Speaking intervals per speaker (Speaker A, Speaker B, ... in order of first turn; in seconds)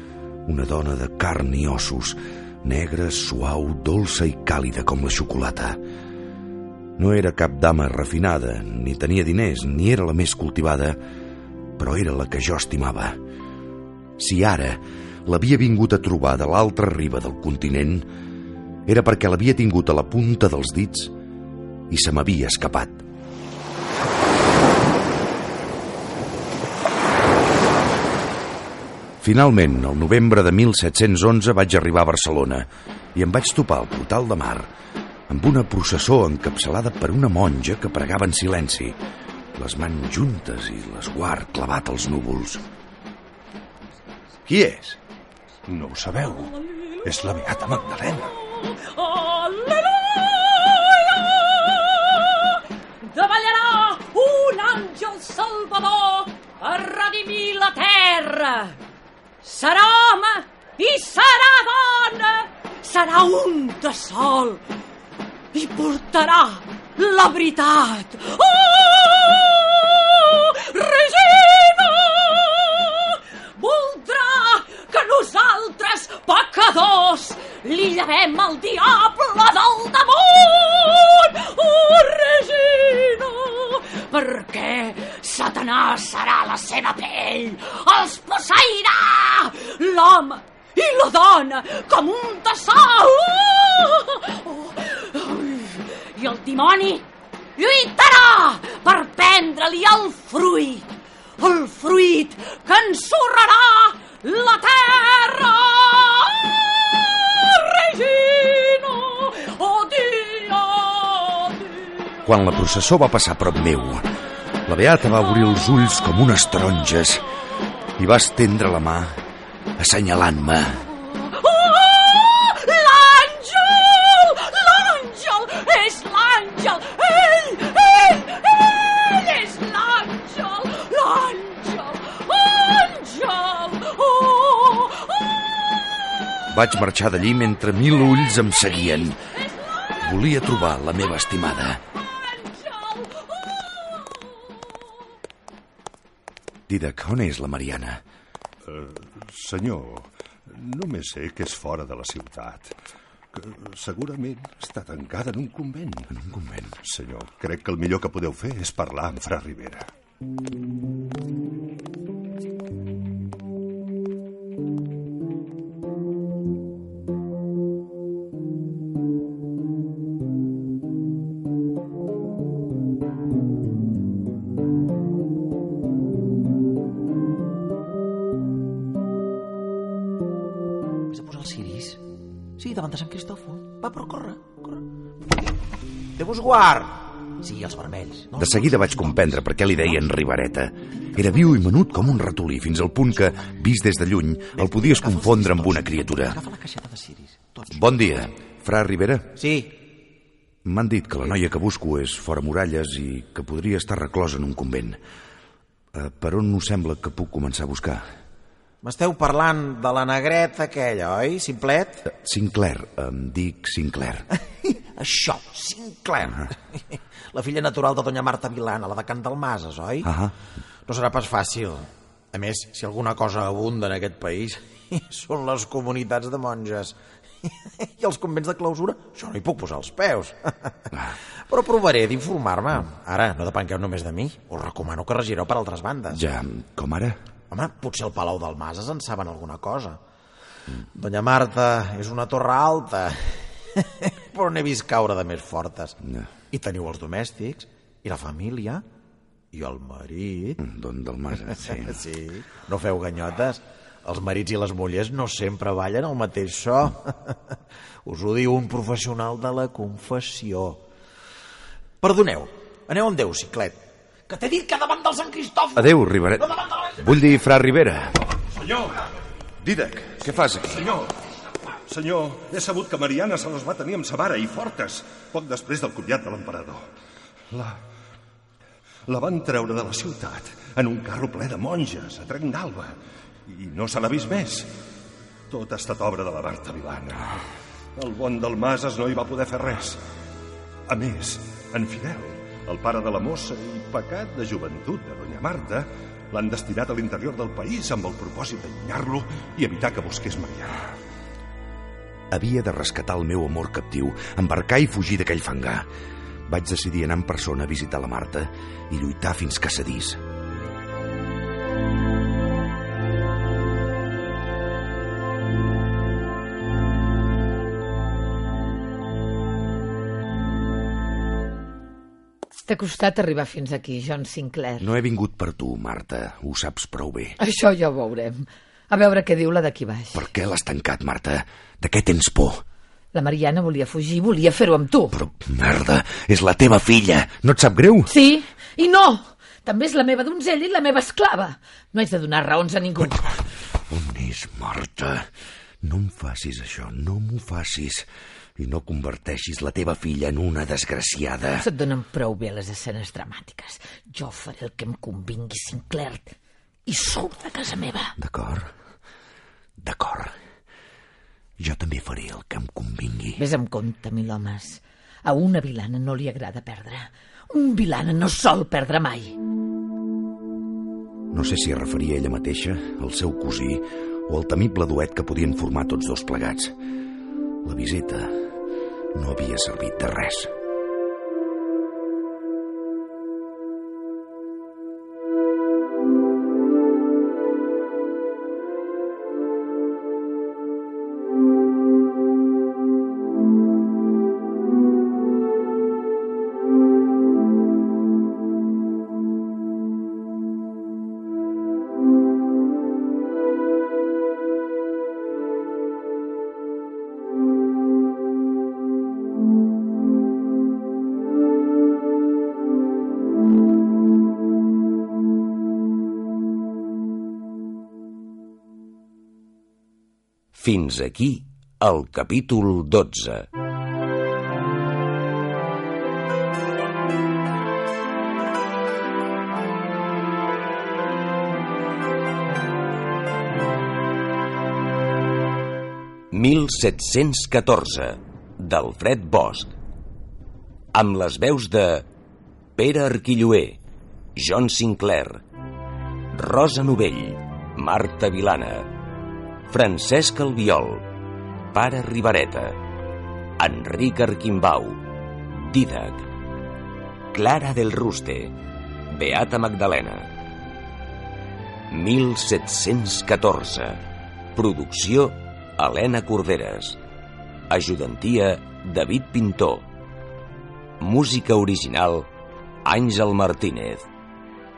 Speaker A: 0.5-5.8, 7.0-11.0, 11.8-13.2, 14.2-18.1, 18.9-21.1, 21.9-23.0, 29.2-34.7, 35.3-39.0, 39.6-42.6, 112.2-114.1, 114.7-117.3, 118.0-119.2, 119.8-120.9, 136.5-139.2, 140.0-141.8, 146.7-148.0, 156.2-156.7, 188.4-196.4, 197.7-199.4, 200.7-205.0, 205.9-208.0, 212.1-214.3, 220.0-220.3, 236.1-237.2, 250.6-252.0, 265.8-268.2, 269.6-270.9, 302.3-305.9, 306.5-310.2, 324.8-327.4, 330.1-332.6, 335.1-338.1, 343.8-345.3, 345.8-351.7, 358.2-358.7, 359.8-360.3, 361.6-363.4, 371.3-376.7, 377.6-378.3, 379.1-380.5
Speaker B: 44.5-45.0, 45.7-48.4, 148.7-152.7, 153.3-156.1, 156.8-159.9, 268.7-268.9, 270.8-271.1, 271.9-276.8, 277.5-277.8, 279.1-282.9, 283.5-284.7, 285.5-290.0, 290.9-300.9
Speaker C: 48.5-58.8, 59.4-64.6, 65.5-97.1, 97.6-100.9, 101.4-112.0, 121.3-135.3, 142.3-144.3
Speaker D: 181.1-182.0, 182.6-184.8, 186.2-189.4, 194.7-197.8, 199.4-199.8, 208.8-212.1, 214.6-220.1, 220.9-236.2, 237.5-240.0, 240.9-246.0, 246.5-248.8, 249.5-250.6, 251.5-260.8, 262.0-266.9
Speaker E: 322.7-324.9, 327.4-330.2, 333.1-335.1, 338.1-343.4, 351.6-356.3, 356.9-358.1, 363.4-369.4
Speaker F: 420.5-423.5, 436.3-439.8, 440.9-442.1, 442.8-443.8, 444.4-445.4, 446.3-448.9, 449.7-451.1, 451.7-452.8, 453.6-455.0, 455.6-456.3, 457.3-458.6, 459.1-460.3, 461.9-464.0, 464.6-467.0, 467.7-469.9, 471.0-472.3, 472.9-474.1